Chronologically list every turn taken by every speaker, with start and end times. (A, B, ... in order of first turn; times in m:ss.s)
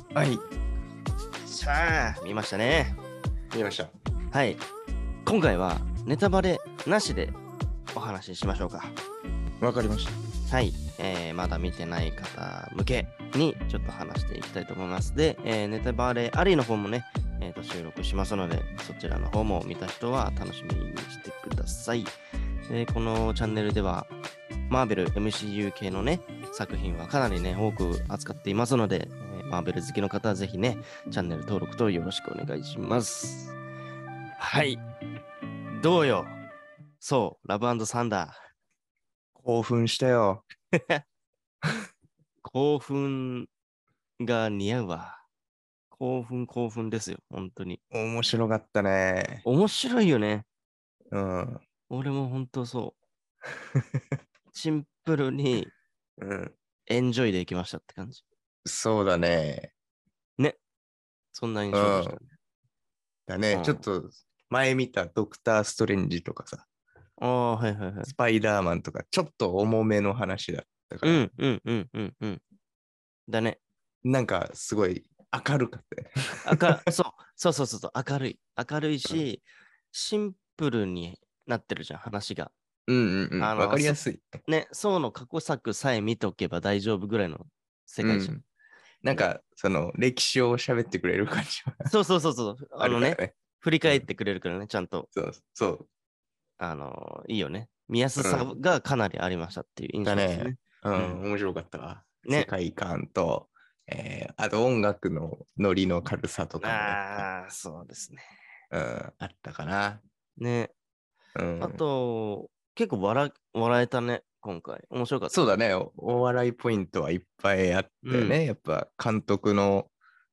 0:00.1-0:00.4 A
0:01.4-0:03.0 B
0:03.5-0:03.9 A
0:04.3-0:04.6 B
0:05.2-0:07.4 B
0:07.9-0:09.0 B
0:09.6-0:10.2 A
0:10.5-0:22.2 B
0:22.7-0:24.1 B
0:24.7-0:33.6 B
0:34.4-0:34.8 B
0:35.7-0:36.4 B
0:37.0-0:38.4 B
0:39.4-0:40.4 A
0:40.8-0:41.0 B
0:42.4-0:43.5 B
0:44.2-0:45.2 B
0:45.9-0:47.8 B
0:47.9-0:49.4 A
0:49.4-0:50.5 B
0:51.1-0:51.6 A
0:51.9-0:53.0 B
0:54.5-0:55.7 B
0:56.2-0:56.6 A
0:56.9-0:58.2 B
0:58.6-0:59.7 A
1:01.3-1:02.3 B
1:01.7-1:02.2 A
1:03.3-1:06.7 A
1:03.5-1:03.8 B
1:07.2-1:08.1 B
1:08.0-1:11.3 A
1:11.0-1:12.4 B
1:13.3-1:13.6 B
1:14.0-1:16.8 A
1:16.4-1:22.5 B
1:22.9-1:24.4 A
1:23.4-1:28.4 B
1:28.0-1:28.4 A
1:29.0-1:31.9 A
1:31.8-1:35.1 B
1:32.8-1:34.1 A
1:35.1-1:35.9 A
1:36.6-1:41.2 B
1:38.2-1:38.5 A
1:40.0-1:47.3 A
1:42.2-1:42.5 B
1:46.6-1:48.2 B
1:48.7-1:50.0 A
1:50.4-1:50.7 B
1:51.4-1:51.8 A
1:51.6-1:55.4 B
1:55.3-1:59.9 A
1:58.0-1:58.4 B